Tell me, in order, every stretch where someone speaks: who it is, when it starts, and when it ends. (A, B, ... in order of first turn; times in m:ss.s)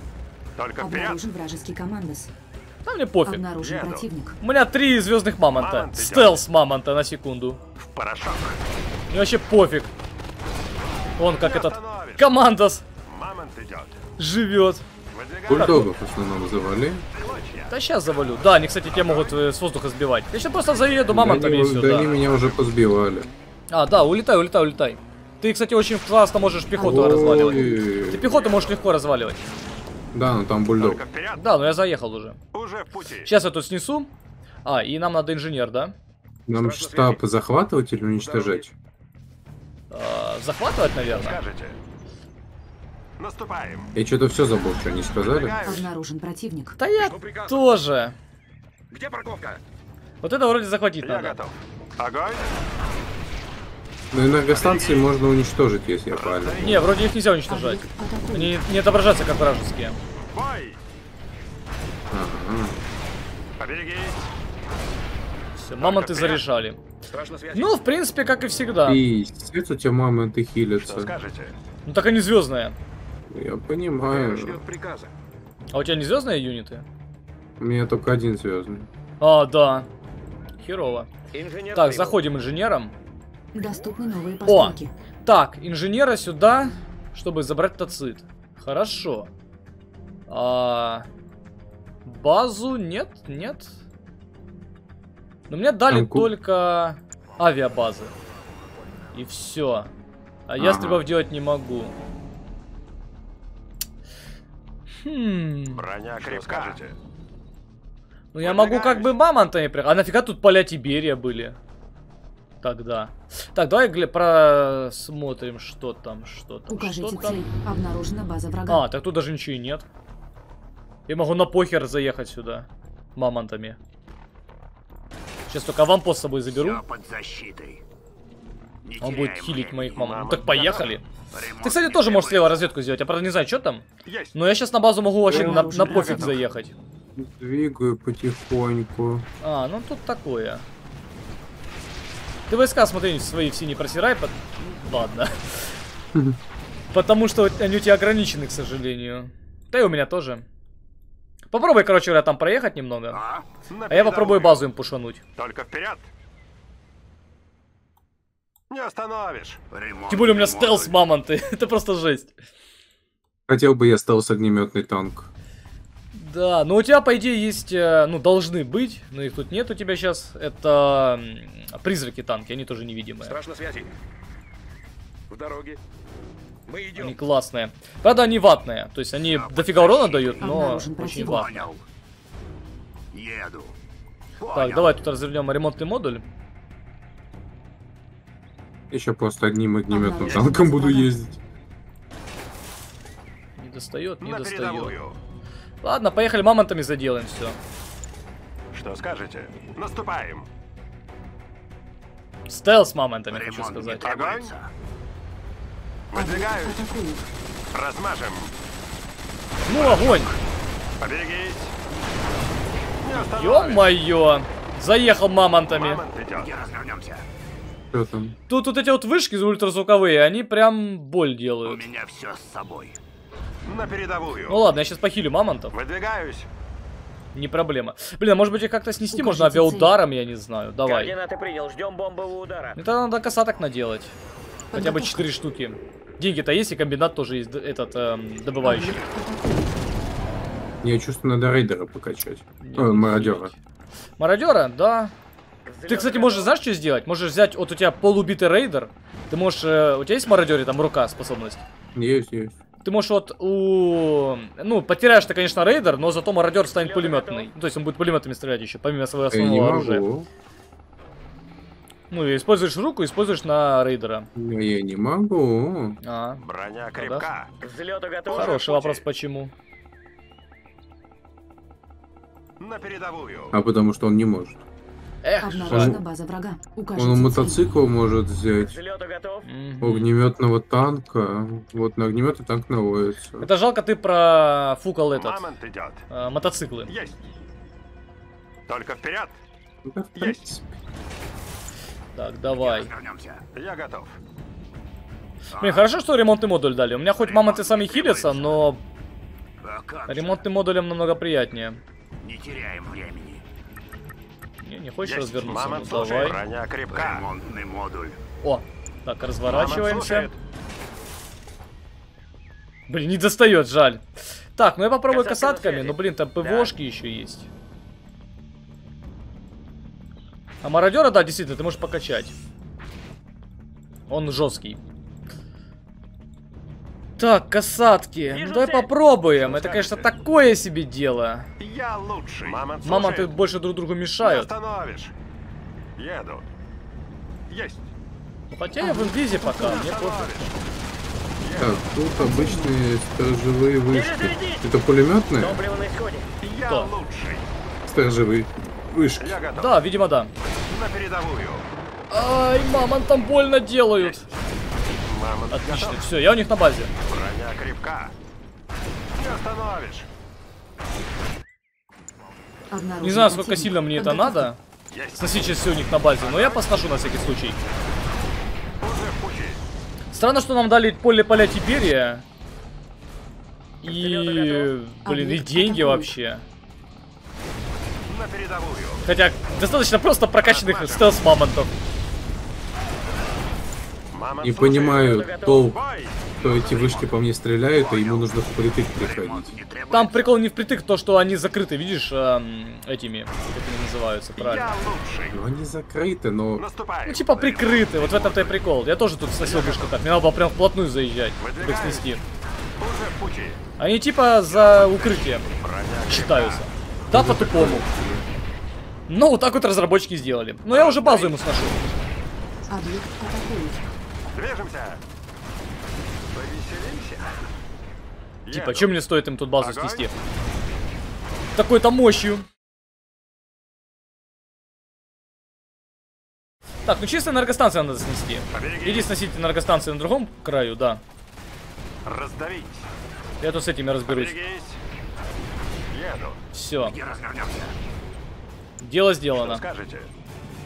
0:00.6-0:01.2 A
0:00.8-0:02.3 B
0:02.8-0:03.4 C
0:03.2-0:04.4 B
0:03.6-0:04.1 A
0:04.4-0:07.6 C
0:05.5-0:06.4 A
0:07.8-0:08.6 A
0:09.1-0:09.9 C
0:11.2-0:12.8 C
0:11.4-0:12.3 A
0:13.0-0:14.0 A
0:14.2-0:14.8 C
0:15.1-0:15.9 A
0:15.5-0:17.0 D
0:17.1-0:17.7 A
0:17.7-0:22.1 C
0:18.7-0:19.4 A
0:21.1-0:23.3 D
0:21.8-0:22.6 A
0:23.7-0:29.4 C
0:26.7-0:27.9 B
0:26.8-0:28.4 D
0:30.1-0:31.0 D
0:30.8-0:31.4 A
0:31.4-0:32.4 C
0:32.5-0:33.3 A
0:33.2-0:34.1 C
0:34.6-0:35.9 C
0:36.5-0:38.7 D
0:36.5-0:37.2 E
0:38.2-0:38.6 E
0:39.9-0:41.4 C
0:41.1-0:41.8 A
0:43.2-0:43.9 A
0:43.9-0:45.6 D
0:45.2-0:45.9 A
0:45.6-0:46.8 B
0:46.8-0:48.2 C
0:47.0-0:47.7 E
0:48.9-0:49.6 E
0:50.2-0:51.4 C
0:51.0-0:52.5 A
0:54.1-0:56.8 D
0:54.5-0:55.1 A
0:56.1-0:56.9 A
0:56.6-1:00.0 C
0:57.5-0:58.6 B
1:00.3-1:00.8 A
1:02.1-1:02.8 D
1:03.6-1:04.3 A
1:05.6-1:06.8 C
1:05.8-1:06.4 A
1:07.1-1:07.8 E
1:07.5-1:09.0 C
1:08.8-1:11.1 D
1:10.8-1:11.5 A
1:11.8-1:12.8 C
1:13.3-1:14.6 D
1:14.0-1:15.1 E
1:15.7-1:16.8 C
1:17.6-1:18.9 D
1:19.2-1:19.9 C
1:20.6-1:21.1 C
1:21.3-1:22.2 F
1:21.7-1:22.9 C
1:23.5-1:24.9 B
1:23.6-1:24.5 E
1:24.4-1:29.3 C
1:30.3-1:31.0 C
1:32.0-1:33.7 C
1:35.5-1:38.1 C
1:35.9-1:36.3 D
1:39.1-1:39.9 C
1:40.5-1:41.9 C
1:40.6-1:41.0 D
1:45.0-1:45.8 C
1:45.7-1:47.0 A
1:46.2-1:46.8 E
1:48.3-1:51.6 C
1:48.4-1:49.2 A
1:52.6-1:57.4 C
1:56.7-1:58.8 B
1:58.7-1:59.8 C
2:01.1-2:03.8 C
2:05.5-2:06.8 C
2:06.5-2:07.8 E
2:08.8-2:10.1 E
2:09.0-2:11.0 C
2:09.9-2:11.0 A
2:11.3-2:12.7 E
2:11.6-2:16.7 C
2:14.0-2:14.3 A
2:15.3-2:16.4 B
2:15.3-2:15.7 D
2:15.8-2:16.3 A
2:17.2-2:19.2 D
2:19.4-2:20.6 C
2:22.5-2:25.8 C
2:26.9-2:30.4 C
2:31.5-2:33.2 C
2:33.1-2:33.5 E
2:33.7-2:34.6 A
2:33.9-2:35.2 C
2:35.4-2:36.1 A
2:38.7-2:39.6 A
2:39.7-2:41.0 E
2:40.1-2:42.3 C
2:43.5-2:45.3 D
2:46.1-2:53.4 C
2:53.2-2:53.9 E
2:55.3-2:55.8 E
2:56.7-2:57.2 E
2:57.0-3:01.6 C
2:59.2-3:01.8 E
3:00.4-3:01.6 B
3:03.1-3:03.8 E
3:04.4-3:05.0 E
3:04.5-3:06.2 C
3:08.9-3:11.4 D
3:09.9-3:11.1 B
3:13.6-3:15.0 C
3:14.2-3:15.2 A
3:15.8-3:17.6 C
3:18.7-3:20.5 A
3:22.5-3:24.1 C
3:23.3-3:24.7 E
3:24.0-3:24.5 A
3:26.1-3:26.9 A
3:26.1-3:27.3 B
3:27.7-3:28.5 A
3:29.6-3:30.3 C
3:29.7-3:30.3 A
3:31.0-3:31.7 A
3:33.0-3:33.9 A
3:33.1-3:36.0 C
3:35.7-3:36.5 A
3:36.3-3:37.2 E
3:37.9-3:38.3 D
3:38.5-3:41.8 C
3:41.6-3:43.0 E
3:43.6-3:44.6 A
3:44.5-3:45.7 C
3:45.7-3:46.5 A
3:47.3-3:51.1 C
3:49.1-3:50.0 B
3:50.8-3:52.8 F
3:52.8-3:54.1 C
3:54.7-3:55.3 B
3:54.7-3:59.0 C
3:58.6-3:59.8 B
4:00.8-4:03.5 D
4:02.6-4:03.5 C
4:04.2-4:05.1 C
4:05.6-4:06.5 F
4:05.9-4:11.6 C
4:11.9-4:12.5 D
4:12.8-4:20.0 C
4:16.6-4:17.5 F
4:19.3-4:20.3 D
4:22.1-4:24.3 C
4:24.3-4:26.0 D
4:26.0-4:26.4 C
4:26.4-4:27.5 A
4:27.0-4:27.3 C
4:27.6-4:28.6 F
4:28.3-4:29.0 A
4:28.3-4:29.5 C
4:32.6-4:33.5 A
4:33.5-4:34.6 D
4:35.2-4:36.0 C
4:35.4-4:37.7 B
4:35.6-4:36.0 D
4:36.9-4:38.8 D
4:38.6-4:39.5 F
4:39.4-4:40.1 C
4:39.8-4:43.5 D
4:43.4-4:45.5 C
4:45.1-4:46.0 A
4:46.1-4:46.9 C
4:46.9-4:47.2 A
4:48.7-4:49.4 A
4:49.8-4:50.7 D
4:50.2-4:50.4 A
4:52.1-4:52.9 C
4:52.5-4:53.4 E
4:53.5-4:54.2 A
4:55.5-4:55.9 E
4:55.6-4:58.8 C
4:57.1-4:58.6 E
4:59.6-5:00.4 E
5:00.1-5:01.8 C
5:02.2-5:03.4 E
5:04.6-5:06.4 C
5:05.0-5:07.2 A
5:06.9-5:08.2 E
5:08.4-5:10.3 C
5:09.4-5:10.3 A
5:12.9-5:14.0 C
5:14.6-5:17.5 C
5:15.1-5:16.7 F
5:20.6-5:22.3 C
5:24.1-5:24.8 C
5:27.2-5:31.5 C
5:28.3-5:28.9 F
5:29.4-5:30.1 A
5:31.6-5:33.3 A
5:32.8-5:34.5 C
5:34.2-5:35.1 A
5:36.0-5:36.5 A
5:37.5-5:37.9 A
5:38.5-5:40.5 C
5:38.8-5:39.8 B
5:39.6-5:40.6 A
5:41.4-5:41.8 A
5:41.6-5:45.6 D
5:42.2-5:42.7 B
5:43.9-5:44.7 F
5:45.4-5:46.2 F
5:46.4-5:47.5 A
5:47.8-5:49.4 D
5:49.2-5:49.8 A
5:49.6-5:50.3 C
5:50.7-5:51.6 A
5:52.1-5:54.2 C
5:54.9-5:56.0 A
5:55.5-5:56.9 C
5:57.1-5:58.1 A
5:59.1-6:00.1 A
6:02.7-6:04.5 B
6:03.0-6:04.6 C
6:04.9-6:05.6 A
6:05.2-6:07.6 C
6:06.2-6:06.8 A
6:08.8-6:09.6 A
6:10.1-6:12.2 C
6:13.8-6:16.4 C
6:13.8-6:14.7 F
6:15.0-6:16.2 B
6:18.1-6:19.0 A
6:19.0-6:21.7 C
6:20.4-6:21.2 A
6:24.1-6:26.3 A
6:24.4-6:25.8 D
6:25.0-6:25.7 F
6:26.4-6:27.2 E
6:26.4-6:29.6 D
6:27.7-6:28.3 E
6:29.0-6:30.4 E
6:29.9-6:34.7 C
6:34.4-6:35.4 A
6:35.3-6:36.6 D
6:36.6-6:38.6 A
6:37.0-6:42.2 C
6:39.4-6:40.0 A
6:41.4-6:42.1 A
6:42.8-6:43.6 A
6:43.8-6:45.5 C
6:44.5-6:46.7 A
6:46.1-6:47.9 C
6:47.1-6:48.2 D
6:49.1-6:52.0 C
6:50.7-6:51.4 A
6:52.7-6:53.8 B
6:54.3-6:55.0 A
6:56.3-6:57.4 A
6:58.4-6:58.9 A
6:58.5-7:00.1 C
6:59.6-7:00.1 A
7:01.6-7:02.4 C
7:06.8-7:11.0 C
7:08.5-7:09.1 A
7:12.0-7:12.9 A
7:13.4-7:14.4 C
7:14.0-7:14.8 A
7:15.9-7:16.4 A
7:16.5-7:17.0 C
7:16.8-7:17.7 E
7:18.8-7:19.6 C
7:19.3-7:20.1 A